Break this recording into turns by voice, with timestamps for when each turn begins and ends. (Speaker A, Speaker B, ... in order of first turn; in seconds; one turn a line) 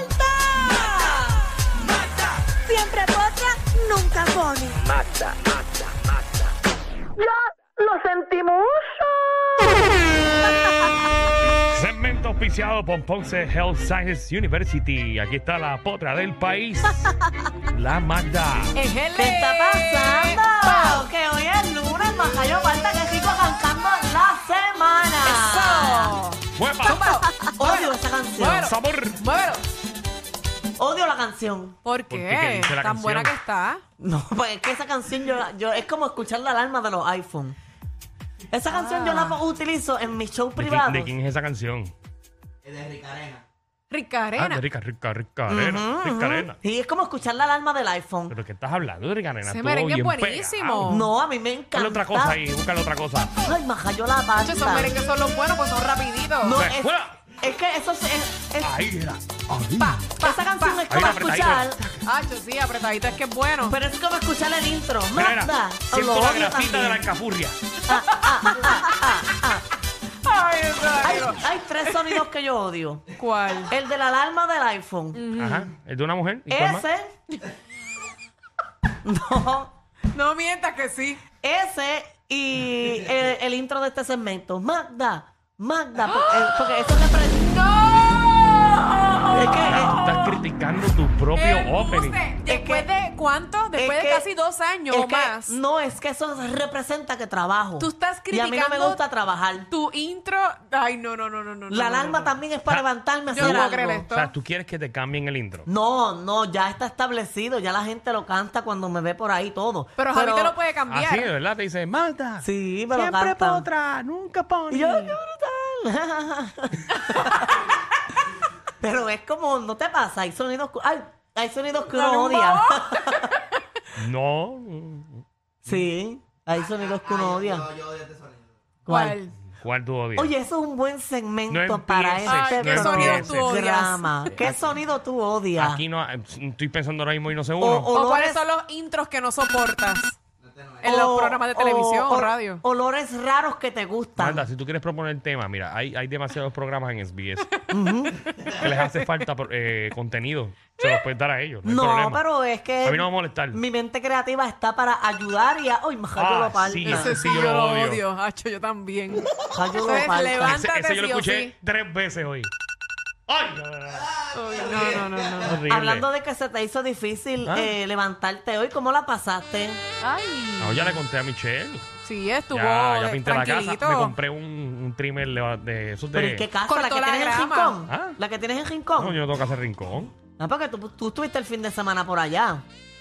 Speaker A: 0.3-1.3
Speaker A: 1.9-5.0
Speaker A: 7.8-8.9
Speaker B: 11.7-17.1
Speaker B: 17.7-18.8
Speaker C: 18.7-21.1
Speaker A: 19.2-26.1
Speaker C: 25.2-29.7
Speaker B: 26.6-27.2
Speaker A: 27.6-28.7
Speaker B: 28.6-29.2
Speaker A: 30.8-31.8
Speaker C: 31.8-33.8
Speaker B: 32.1-33.4
Speaker A: 34.0-37.6
Speaker A: 38.5-41.1
Speaker C: 38.7-39.4
Speaker B: 40.6-41.9
Speaker C: 43.9-44.6
Speaker B: 44.4-46.6
Speaker A: 45.5-48.4
Speaker B: 48.3-50.9
Speaker C: 49.5-51.1
Speaker A: 50.9-52.4
Speaker B: 51.7-53.4
Speaker A: 53.4-54.9
Speaker C: 54.4-56.6
Speaker A: 56.4-58.7
Speaker B: 56.6-57.2
Speaker B: 58.6-60.2
Speaker C: 59.8-60.8
Speaker A: 60.2-61.8
Speaker B: 60.9-62.1
Speaker C: 62.0-63.8
Speaker A: 63.6-67.0
Speaker B: 65.1-67.6
Speaker A: 67.9-69.7
Speaker C: 67.9-68.9
Speaker C: 70.2-72.2
Speaker A: 71.0-73.1
Speaker C: 73.2-73.7
Speaker A: 73.7-75.2
Speaker C: 75.1-75.7
Speaker B: 75.4-76.9
Speaker A: 76.5-77.1
Speaker A: 79.0-79.7
Speaker C: 80.1-81.2
Speaker A: 81.4-87.6
Speaker C: 86.1-90.4
Speaker A: 89.3-89.9
Speaker B: 89.7-92.3
Speaker C: 91.3-95.6
Speaker A: 92.5-92.9
Speaker A: 93.8-94.3
Speaker A: 94.9-99.7
Speaker C: 97.8-99.0
Speaker C: 99.7-102.3
Speaker A: 101.7-104.0
Speaker C: 103.3-104.3
Speaker B: 103.4-105.7
Speaker A: 105.7-110.6
Speaker C: 110.0-111.3
Speaker B: 110.9-115.2
Speaker A: 112.4-113.7
Speaker A: 114.7-117.6
Speaker A: 118.8-123.3
Speaker C: 121.9-123.4
Speaker B: 124.0-125.2
Speaker A: 125.6-127.8
Speaker A: 128.9-129.2
Speaker C: 128.9-129.4
Speaker B: 129.6-130.3
Speaker A: 130.2-135.8
Speaker B: 131.5-133.6
Speaker C: 132.2-134.3
Speaker B: 135.6-137.9
Speaker A: 137.6-138.4
Speaker C: 137.9-140.2
Speaker C: 140.8-142.6
Speaker A: 140.8-144.4
Speaker B: 144.2-147.5
Speaker A: 147.7-148.2
Speaker C: 148.3-148.6
Speaker B: 148.6-152.2
Speaker A: 151.6-157.1
Speaker B: 152.8-153.6
Speaker B: 156.2-158.0
Speaker C: 156.8-161.6
Speaker A: 159.5-160.6
Speaker B: 160.4-162.5
Speaker B: 163.3-164.2
Speaker C: 164.3-165.7
Speaker B: 165.4-166.1
Speaker A: 165.7-169.8
Speaker B: 167.5-167.8
Speaker C: 170.0-171.0
Speaker B: 170.6-171.9
Speaker C: 172.0-174.1
Speaker B: 172.5-176.5
Speaker A: 176.1-179.2
Speaker C: 176.7-177.8
Speaker B: 177.9-178.2
Speaker B: 179.0-180.1
Speaker A: 180.3-182.6